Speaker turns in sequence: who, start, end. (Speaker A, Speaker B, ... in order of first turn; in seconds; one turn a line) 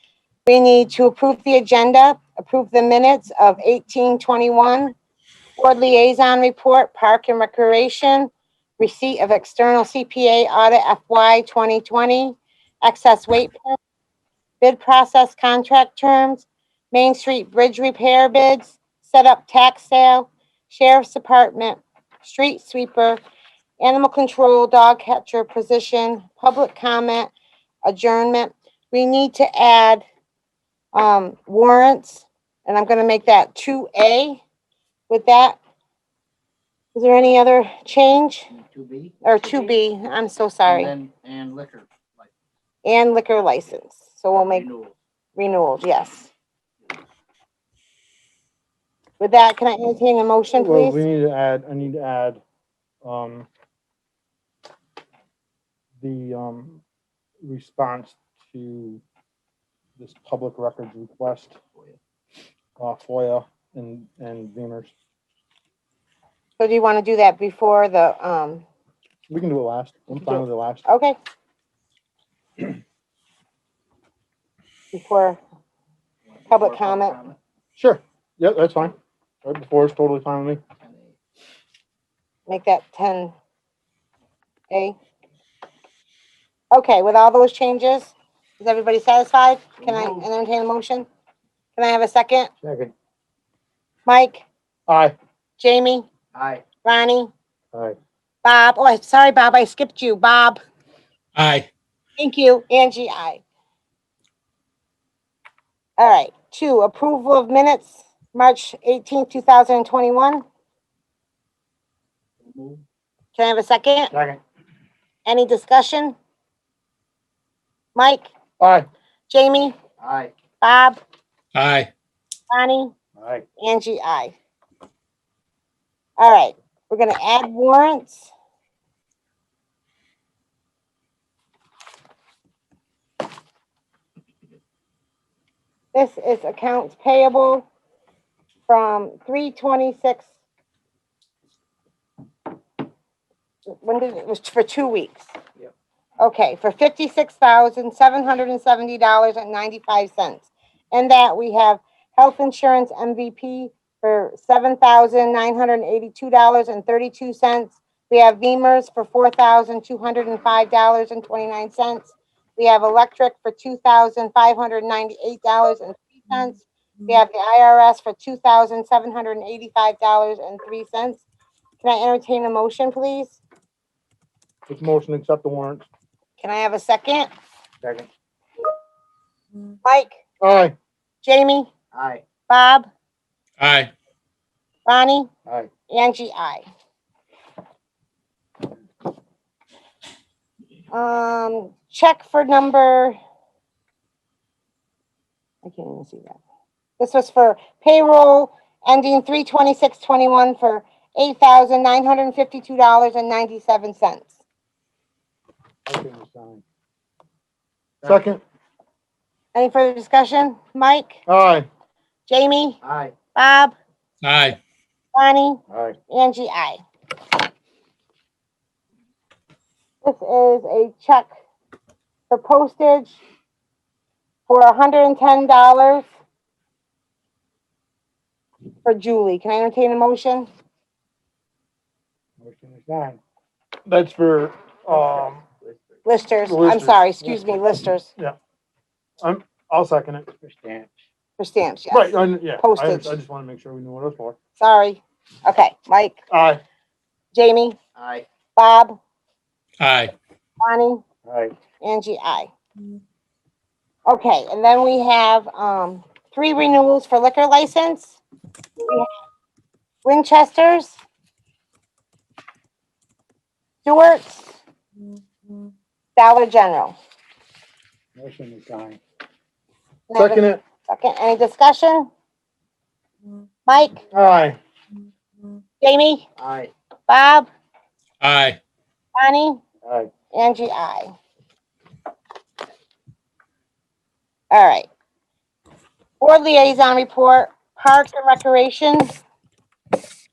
Speaker A: 0.5-5.0
Speaker A: 5.6-13.8
Speaker A: 14.6-23.2
Speaker A: 23.8-27.3
Speaker A: 27.9-30.0
Speaker A: 30.9-34.4
Speaker A: 35.1-35.6
Speaker A: 37.0-38.5
Speaker B: 38.5-39.7
Speaker A: 39.2-40.9
Speaker B: 40.7-42.3
Speaker A: 42.8-44.7
Speaker B: 44.4-44.9
Speaker A: 45.4-46.3
Speaker A: 49.2-51.0
Speaker C: 50.5-52.4
Speaker C: 53.0-53.5
Speaker C: 56.0-56.8
Speaker C: 57.4-59.0
Speaker C: 60.0-61.6
Speaker C: 62.8-64.9
Speaker A: 66.6-68.6
Speaker C: 69.3-70.8
Speaker A: 70.9-71.2
Speaker A: 74.9-75.4
Speaker B: 76.3-77.4
Speaker A: 76.5-77.2
Speaker C: 77.8-80.6
Speaker B: 80.9-81.1
Speaker A: 82.5-83.3
Speaker A: 84.7-85.0
Speaker A: 86.7-91.1
Speaker B: 89.8-90.2
Speaker A: 91.8-92.5
Speaker C: 92.6-92.9
Speaker A: 94.1-94.5
Speaker C: 94.9-95.2
Speaker A: 95.6-96.1
Speaker B: 96.3-96.6
Speaker A: 96.8-97.3
Speaker A: 98.4-100.6
Speaker D: 101.4-101.7
Speaker A: 102.2-103.4
Speaker A: 106.0-110.4
Speaker B: 112.4-112.8
Speaker A: 113.4-114.1
Speaker C: 114.1-114.4
Speaker A: 115.3-116.2
Speaker A: 118.0-118.3
Speaker C: 118.6-118.9
Speaker A: 119.3-119.8
Speaker B: 120.0-120.3
Speaker A: 120.6-121.0
Speaker D: 121.6-121.9
Speaker A: 122.5-122.9
Speaker C: 123.2-123.4
Speaker A: 123.6-124.3
Speaker A: 126.2-128.3
Speaker A: 135.9-137.7
Speaker A: 138.7-140.3
Speaker A: 143.7-145.3
Speaker A: 146.2-171.2
Speaker A: 171.8-173.4
Speaker C: 174.7-175.9
Speaker A: 176.4-177.3
Speaker A: 179.8-180.2
Speaker C: 180.4-180.8
Speaker A: 181.2-181.7
Speaker B: 181.9-182.2
Speaker A: 182.5-182.9
Speaker D: 183.6-183.9
Speaker A: 184.9-185.3
Speaker A: 185.9-186.7
Speaker A: 190.9-193.2
Speaker A: 195.6-196.4
Speaker A: 197.0-204.3
Speaker C: 205.9-206.6
Speaker B: 208.0-208.3
Speaker C: 208.0-208.4
Speaker A: 209.6-211.2
Speaker C: 211.3-211.7
Speaker A: 212.3-212.8
Speaker B: 212.8-213.1
Speaker A: 213.3-213.8
Speaker D: 214.2-214.6
Speaker A: 215.2-216.8
Speaker A: 220.0-221.3
Speaker A: 222.3-223.2
Speaker A: 224.5-226.1
Speaker A: 228.8-230.5
Speaker C: 232.4-233.2
Speaker C: 233.9-235.4
Speaker B: 235.0-235.8
Speaker A: 236.1-238.1
Speaker C: 236.4-237.4
Speaker C: 239.2-240.3
Speaker B: 240.4-240.9
Speaker A: 241.4-243.1
Speaker C: 241.9-244.4
Speaker A: 244.6-246.2
Speaker C: 246.3-246.6
Speaker A: 247.3-247.8
Speaker B: 248.0-248.2
Speaker A: 248.6-249.0
Speaker D: 249.8-250.1
Speaker A: 250.6-251.0
Speaker C: 251.3-251.5
Speaker A: 251.8-252.5
Speaker A: 254.1-258.2
Speaker A: 260.0-261.0
Speaker A: 263.9-264.6
Speaker A: 266.2-266.9
Speaker C: 268.2-269.0
Speaker A: 270.1-272.1
Speaker C: 270.2-270.6
Speaker A: 273.7-274.1
Speaker C: 274.1-274.6
Speaker A: 275.8-276.3
Speaker B: 276.4-276.7
Speaker A: 277.1-277.5
Speaker D: 278.2-278.6
Speaker A: 279.2-279.6
Speaker A: 280.3-281.1
Speaker A: 284.5-284.9
Speaker A: 286.2-289.2